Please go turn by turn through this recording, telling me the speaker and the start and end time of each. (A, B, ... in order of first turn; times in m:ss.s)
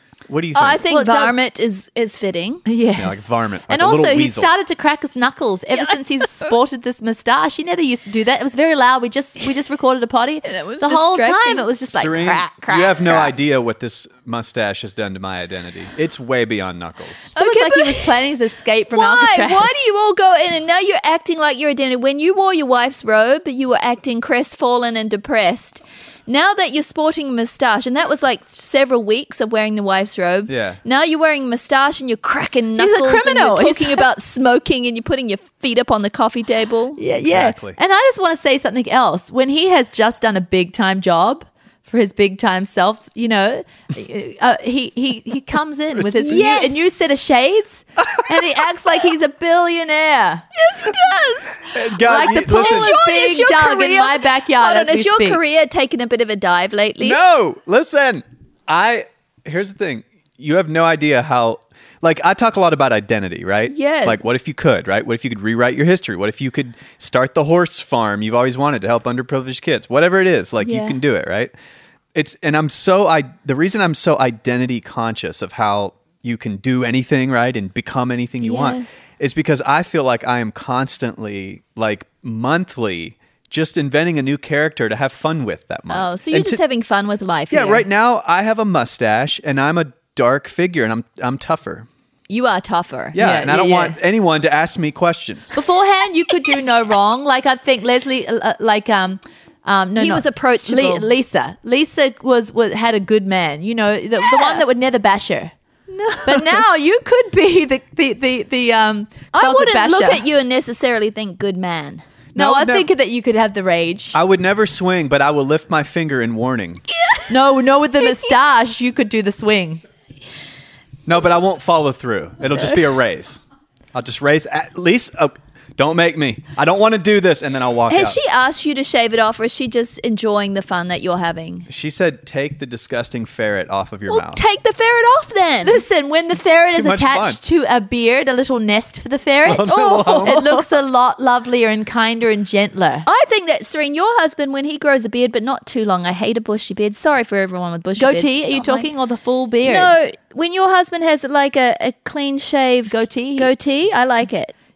0:00.3-0:00.8 A
0:00.5-0:02.6 B
0:00.9-0:01.4 C
0:02.7-0:13.3 C
0:03.0-0:04.5 A
0:05.7-0:06.6 B
0:10.4-0:11.7 B
0:11.9-0:17.3 A
0:17.4-0:18.3 B
0:17.4-0:19.8 C
0:18.9-0:37.0 B
0:30.5-0:30.8 A
0:32.8-0:34.0 C
0:37.0-0:50.5 C
0:37.2-0:37.8 A
0:46.1-0:47.1 B
0:50.6-0:57.2 B
0:51.7-0:52.9 A
0:52.0-0:55.4 C
0:57.0-1:11.5 A
1:03.7-1:04.4 B
1:10.6-1:11.0 B
1:12.1-1:26.6 A
1:18.4-1:18.9 B
1:25.9-1:27.8 B
1:27.5-1:31.9 A
1:32.3-1:33.2 B
1:33.1-1:35.6 A
1:33.2-1:34.0 C
1:35.5-1:45.5 C
1:40.0-1:41.1 B
1:44.3-1:44.6 B
1:45.9-1:46.6 B
1:46.2-1:50.2 C
1:49.3-1:52.0 B
1:52.4-1:52.9 A
1:52.4-1:54.2 C
1:54.1-1:56.8 A
1:57.0-1:57.2 B
1:57.3-1:59.8 C
2:01.1-2:03.4 A
2:03.9-2:08.2 A
2:07.9-2:11.7 B
2:11.7-2:14.4 A
2:14.1-2:15.8 B
2:15.6-2:23.1 C
2:16.7-2:17.4 A
2:19.4-2:20.4 A
2:19.6-2:20.6 B
2:23.1-2:28.9 B
2:28.0-2:29.9 C
2:29.6-2:34.5 B
2:32.9-2:33.5 C